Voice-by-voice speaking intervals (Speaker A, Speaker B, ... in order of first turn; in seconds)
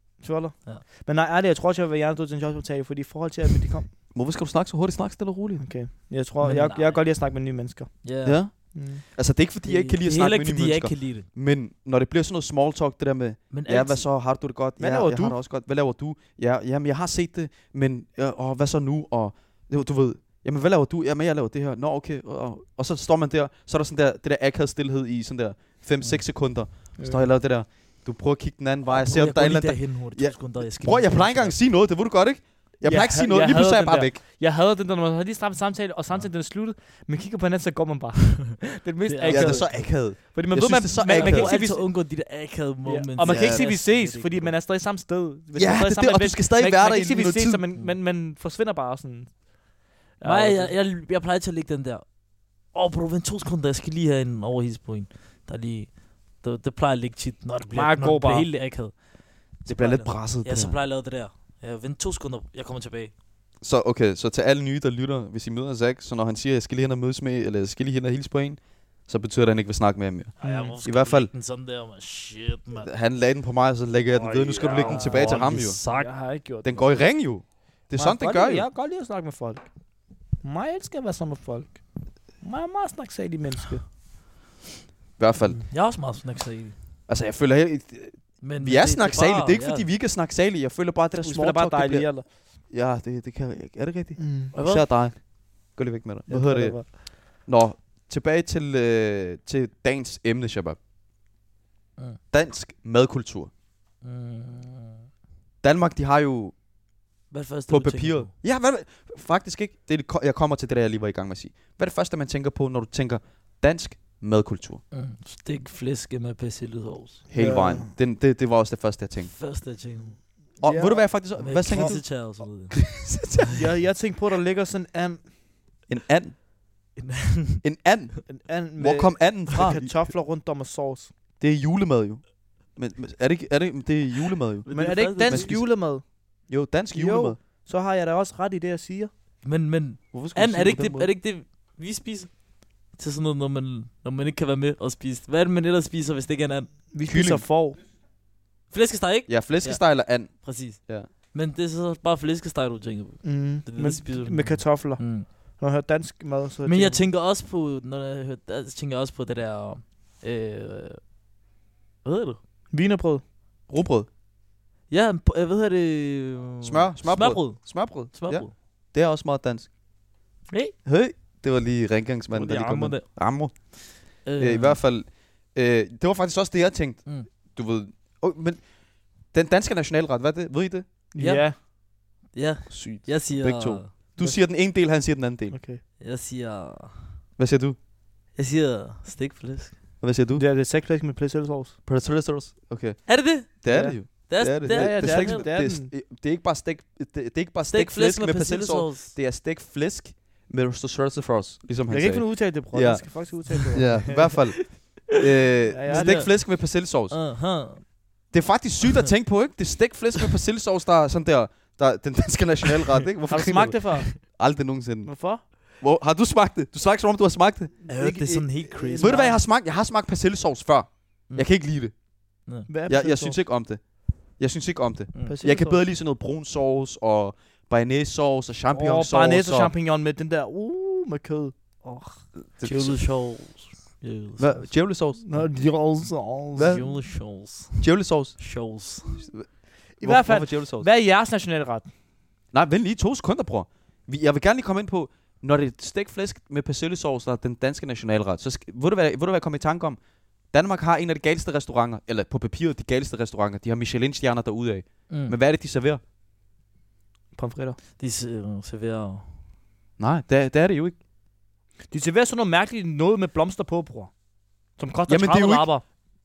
Speaker A: 0.2-3.9, 5.6-8.0, 8.7-9.0, 14.8-15.4, 27.0-27.3, 32.8-42.1, 42.9-49.4, 50.2-50.8, 57.7-58.5, 70.4-70.8, 74.7-77.0, 78.0-79.7, 80.4-81.8, 82.4-83.8, 91.2-92.3, 94.2-94.5, 96.3-96.9, 117.3-117.9, 120.6-122.0, 123.5-125.3, 128.3-131.1, 134.7-136.0, 136.9-139.1, 146.9-147.8, 153.2-157.1, 162.7-163.2, 181.1-181.6, 184.2-184.5, 185.5-185.8, 190.4-191.8, 193.7-195.9, 201.9-204.4, 205.7-206.2, 213.3-214.2, 215.1-215.4, 217.9-219.3, 222.7-223.4, 225.2-225.8, 228.7-232.2, 235.2-236.9, 240.0-241.9, 257.4-257.8, 261.9-264.1, 264.8-265.8
Speaker B: 4.1-5.7, 8.2-34.2, 39.3-41.5, 43.2-43.7, 45.6-47.6, 59.7-60.8, 63.6-71.3, 72.8-75.8, 76.6-78.7, 85.2-85.6, 87.1-92.2, 92.7-100.8, 102.3-103.5, 105.6-106.5, 107.7-114.8, 117.3-119.3, 120.6-123.6, 125.9-126.4, 127.6-130.1, 131.4-135.8, 136.5-137.4, 140.1-141.1, 147.1-147.4, 149.3-151.1, 163.7-164.1, 166.6-169.7, 170.8-178.7, 179.2-180.8, 182.7-185.6, 187.4-187.8, 190.0-190.4, 191.9-207.2, 208.3-217.8, 219.0-221.9, 222.9-223.8, 224.4-229.7, 232.5-233.0, 234.4-235.2, 236.6-236.9, 237.8-238.4, 239.2-239.5, 240.0-240.9, 242.5-250.0, 250.5-256.0, 260.0-261.0, 265.1-265.7
Speaker C: 6.4-7.0, 8.0-8.4, 9.6-11.3, 13.5-14.1, 28.9-31.6, 39.0-39.9, 41.1-44.5, 50.2-52.1, 52.7-59.0, 59.6-63.1, 70.4-72.9, 74.2-76.1, 85.7-86.7, 88.4-89.9, 94.5-94.8, 104.0-105.1, 107.3-108.3, 114.9-117.2, 119.2-120.2, 121.4-123.0, 127.0-127.6, 134.6-135.6, 139.4-146.7, 148.7-155.3, 156.7-161.0, 162.0-162.4, 164.9-168.5, 170.5-170.8, 172.3-173.1, 173.9-174.8, 181.2-181.6, 182.3-183.9, 186.0-187.2, 188.3-189.8, 193.1-195.5, 197.7-199.2, 204.2-205.2, 205.9-207.8, 217.9-219.4, 232.6-234.7, 236.6-239.2, 255.1-255.4, 258.0-259.3